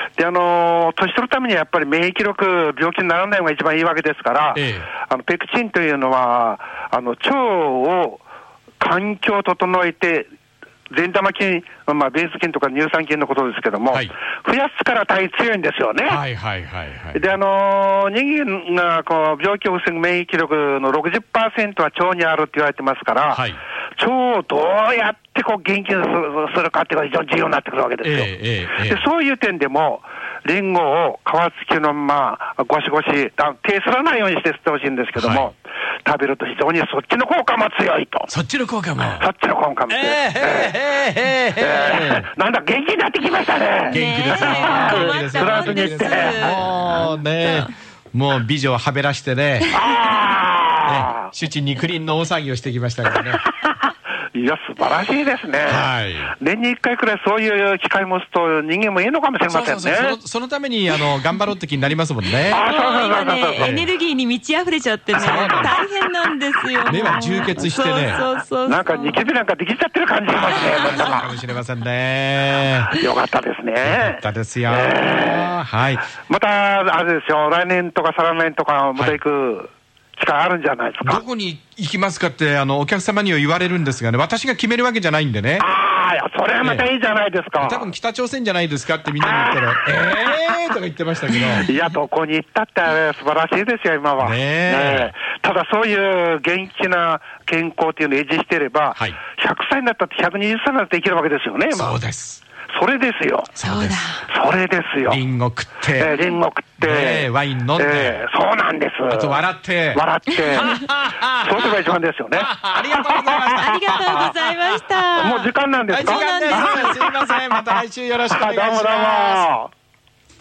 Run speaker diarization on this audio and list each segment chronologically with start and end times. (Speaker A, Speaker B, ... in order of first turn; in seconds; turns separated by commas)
Speaker A: 0.2-8.2, Speaker B: 4.5-4.9, Speaker A: 8.8-10.3, Speaker A: 10.9-16.2, Speaker B: 16.1-17.4, Speaker A: 17.1-28.3, Speaker B: 23.3-23.6, Speaker B: 28.0-29.1, Speaker A: 28.8-38.3, Speaker B: 35.2-35.5, Speaker B: 38.3-39.3, Speaker A: 39.2-40.8, Speaker B: 39.9-42.3, Speaker A: 41.6-46.6, Speaker C: 43.9-47.7, Speaker B: 43.9-49.7, Speaker A: 49.7-51.3, Speaker B: 50.9-53.4, Speaker A: 53.4-53.8, Speaker A: 54.4-60.2, Speaker B: 55.6-56.3, Speaker B: 59.5-62.6, Speaker C: 62.4-69.2, Speaker A: 62.5-63.8, Speaker B: 63.6-63.9, Speaker B: 65.1-65.8, Speaker B: 66.9-68.2, Speaker A: 68.7-71.3, Speaker B: 70.3-72.9, Speaker C: 70.7-71.2, Speaker A: 72.9-75.6, Speaker B: 73.8-76.1, Speaker A: 76.2-81.2, Speaker B: 81.0-85.7, Speaker A: 85.6-87.9, Speaker B: 86.6-86.9, Speaker B: 87.6-91.7, Speaker A: 89.2-89.8, Speaker A: 91.4-102.0, Speaker B: 94.2-95.1, Speaker B: 101.7-102.4, Speaker A: 102.7-103.5, Speaker B: 103.6-104.1, Speaker C: 103.6-104.2, Speaker A: 104.3-105.2, Speaker B: 105.1-106.2, Speaker A: 106.0-114.0, Speaker B: 106.8-108.3, Speaker B: 109.1-114.7, Speaker C: 113.5-115.5, Speaker A: 115.2-117.1, Speaker B: 115.9-119.5, Speaker C: 116.0-117.0, Speaker A: 118.3-119.7